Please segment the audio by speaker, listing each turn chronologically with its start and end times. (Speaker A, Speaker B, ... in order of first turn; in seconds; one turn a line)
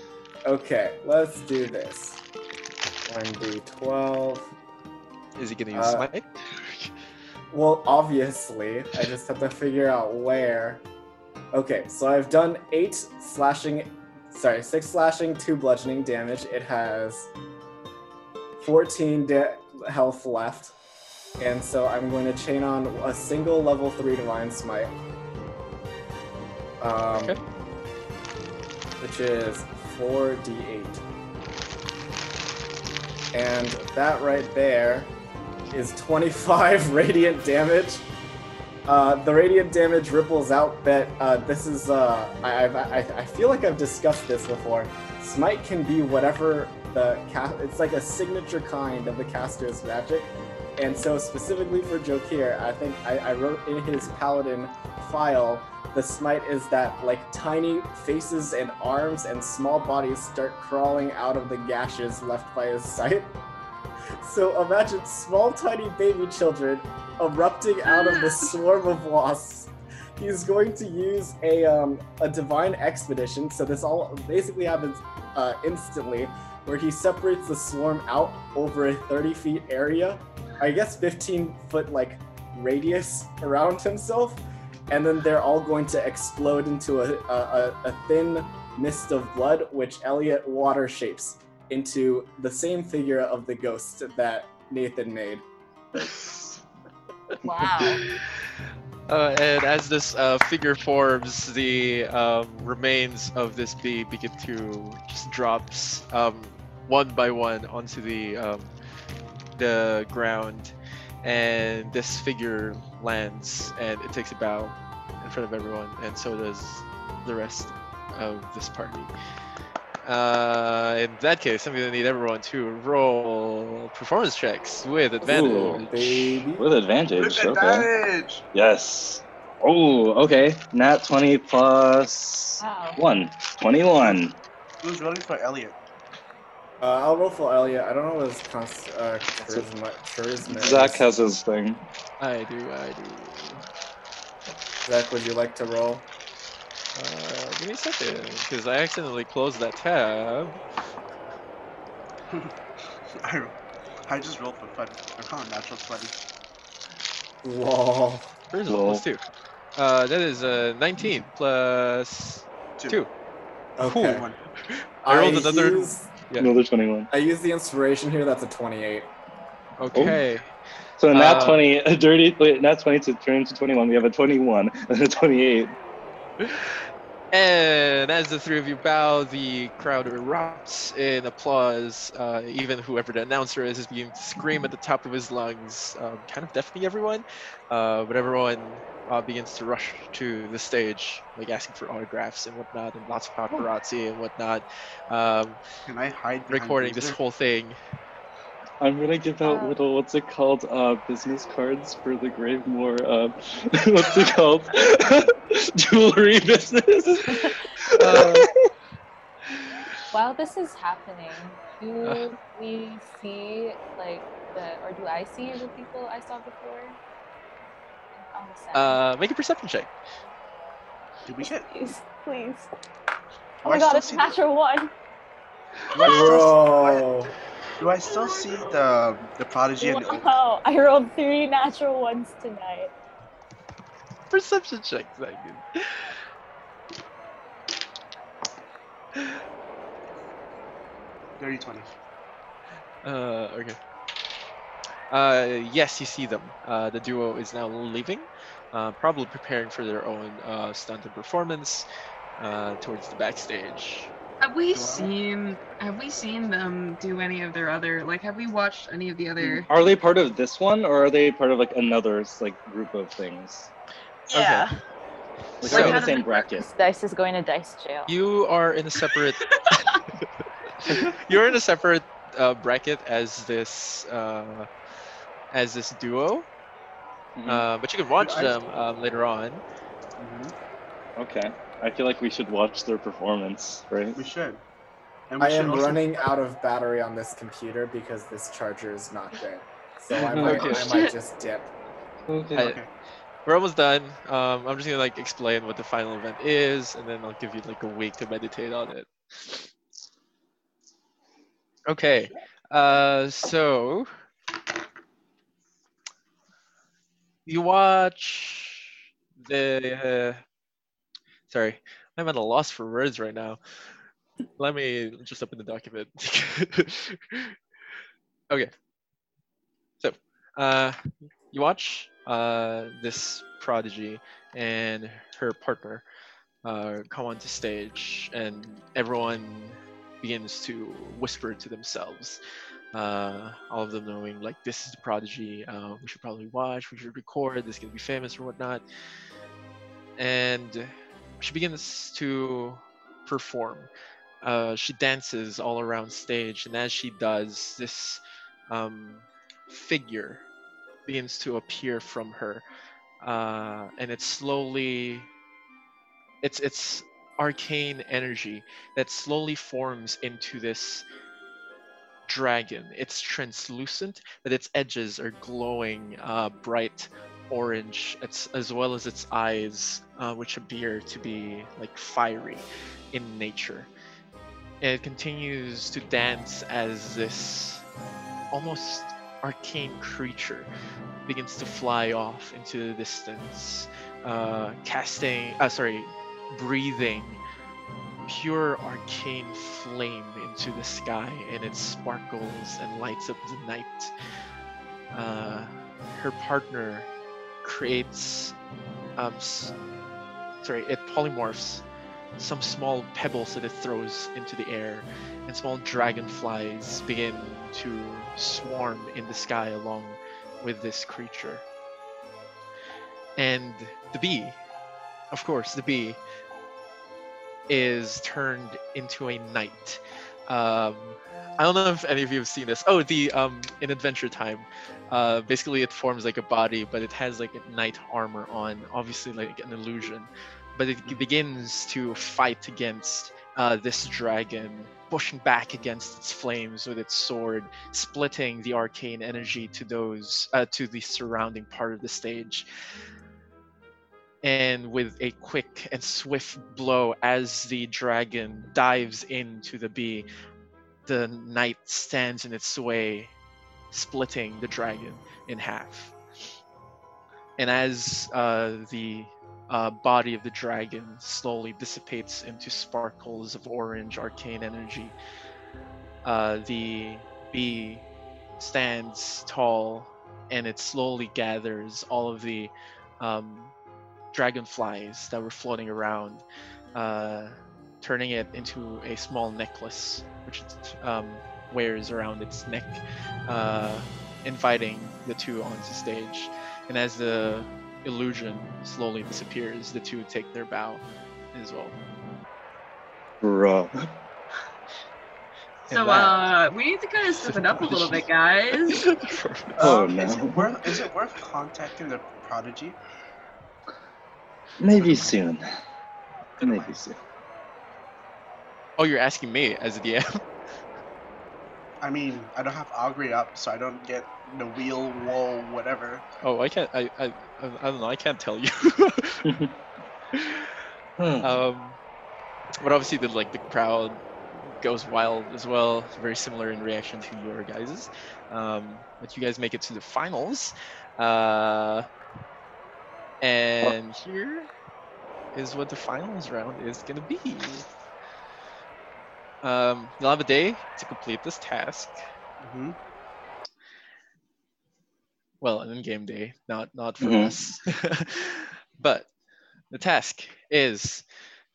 Speaker A: 0.5-2.2
Speaker A: 3.0-4.5
Speaker B: 5.4-6.9
Speaker A: 5.7-6.1
Speaker A: 7.5-10.8
Speaker A: 11.5-17.3
Speaker A: 18.6-20.7
Speaker A: 21.4-24.9
Speaker A: 26.8-27.4
Speaker A: 29.0-31.0
Speaker A: 33.3-35.1
Speaker A: 35.7-38.1
Speaker A: 38.9-63.4
Speaker A: 64.2-95.4
Speaker C: 67.8-68.5
Speaker D: 96.0-96.4
Speaker E: 97.4-98.0
Speaker B: 97.8-98.2
Speaker B: 99.1-108.7
Speaker B: 109.5-119.1
Speaker B: 120.0-126.5
Speaker A: 125.2-126.7
Speaker D: 125.2-125.8
Speaker D: 126.6-127.9
Speaker F: 127.2-128.4
Speaker D: 128.5-134.3
Speaker E: 132.6-133.0
Speaker F: 134.8-135.8
Speaker A: 136.8-141.1
Speaker D: 140.5-141.8
Speaker B: 142.2-143.6
Speaker A: 144.8-146.1
Speaker B: 146.9-150.6
Speaker F: 153.2-153.5
Speaker F: 154.1-156.1
Speaker A: 157.4-158.3
Speaker B: 158.5-159.2
Speaker D: 158.7-159.0
Speaker B: 159.8-163.1
Speaker A: 163.8-164.2
Speaker B: 163.8-166.5
Speaker F: 164.1-164.3
Speaker A: 165.0-166.1
Speaker D: 166.4-167.1
Speaker A: 167.1-169.1
Speaker B: 169.8-170.4
Speaker D: 169.9-170.2
Speaker D: 171.0-175.7
Speaker B: 171.1-171.6
Speaker B: 176.4-176.8
Speaker B: 177.3-195.6
Speaker F: 195.9-197.2
Speaker B: 196.5-197.8
Speaker D: 198.8-208.5
Speaker E: 199.4-199.8
Speaker E: 207.3-207.5
Speaker B: 208.0-208.5
Speaker E: 210.1-217.0
Speaker B: 212.0-212.3
Speaker E: 218.2-219.0
Speaker B: 218.7-219.9
Speaker F: 221.3-221.7
Speaker E: 221.4-222.7
Speaker F: 223.6-224.4
Speaker E: 223.6-224.9
Speaker F: 225.9-227.1
Speaker A: 226.0-227.3
Speaker E: 226.0-226.4
Speaker F: 227.8-230.3
Speaker E: 229.8-232.9
Speaker B: 234.3-236.1
Speaker F: 241.4-241.9
Speaker B: 243.0-243.8
Speaker B: 245.1-251.9
Speaker B: 252.4-254.1
Speaker C: 254.4-259.7
Speaker F: 254.7-255.1
Speaker D: 259.4-263.7
Speaker B: 264.3-264.7
Speaker C: 264.3-264.8
Speaker D: 265.6-266.7
Speaker C: 265.6-266.4
Speaker B: 265.6-266.0
Speaker E: 265.8-268.1
Speaker B: 268.1-269.9
Speaker C: 269.4-269.8
Speaker B: 270.8-274.7
Speaker D: 270.9-271.2
Speaker B: 275.5-276.5
Speaker D: 277.4-277.6
Speaker B: 277.5-279.6
Speaker F: 278.2-278.6
Speaker F: 280.2-280.5
Speaker D: 281.2-284.2
Speaker F: 284.1-284.6
Speaker F: 285.3-286.1
Speaker A: 285.4-291.7
Speaker B: 290.2-291.0
Speaker D: 290.3-290.8
Speaker C: 290.6-291.1
Speaker D: 292.3-292.7
Speaker F: 292.6-292.9
Speaker B: 293.4-299.7
Speaker B: 301.9-304.1
Speaker B: 307.4-310.4
Speaker B: 311.5-313.6
Speaker B: 314.6-317.6
Speaker B: 320.0-321.0
Speaker B: 321.5-326.0
Speaker B: 326.6-332.4
Speaker B: 332.9-338.8
Speaker B: 340.2-340.9
Speaker B: 341.4-343.9
Speaker B: 344.4-350.4
Speaker B: 351.1-352.6
Speaker B: 353.2-355.3
Speaker B: 356.4-361.0
Speaker B: 362.3-373.9
Speaker B: 374.8-377.8
Speaker B: 378.5-380.7
Speaker B: 381.2-387.4
Speaker B: 388.3-394.1
Speaker B: 395.1-397.1
Speaker B: 397.6-398.5
Speaker B: 399.2-399.7
Speaker B: 400.6-401.8
Speaker B: 402.4-411.6
Speaker B: 413.4-414.6
Speaker B: 415.3-416.2
Speaker B: 417.7-442.7
Speaker B: 444.4-450.3
Speaker B: 451.1-453.3
Speaker B: 453.9-456.1
Speaker B: 457.6-465.1
Speaker B: 466.2-468.0
Speaker B: 468.6-473.7
Speaker B: 474.3-476.4
Speaker B: 476.9-491.0
Speaker B: 491.5-491.9
Speaker D: 493.4-494.1
Speaker B: 495.9-496.5
Speaker C: 495.9-499.1
Speaker B: 497.5-498.2
Speaker B: 498.9-499.9
Speaker F: 499.8-503.0
Speaker D: 499.8-500.7
Speaker D: 504.8-505.6
Speaker F: 504.9-505.4
Speaker F: 506.6-507.0
Speaker D: 506.6-507.2
Speaker B: 509.0-510.4
Speaker F: 512.0-516.2
Speaker B: 516.4-519.4
Speaker D: 519.4-519.7
Speaker B: 520.3-520.7
Speaker D: 521.2-521.5
Speaker B: 521.4-522.0
Speaker B: 522.8-532.1
Speaker B: 533.4-534.7
Speaker B: 535.5-537.9
Speaker B: 539.6-542.2
Speaker F: 542.6-543.0
Speaker B: 545.6-549.3
Speaker D: 547.2-547.5
Speaker B: 549.9-551.2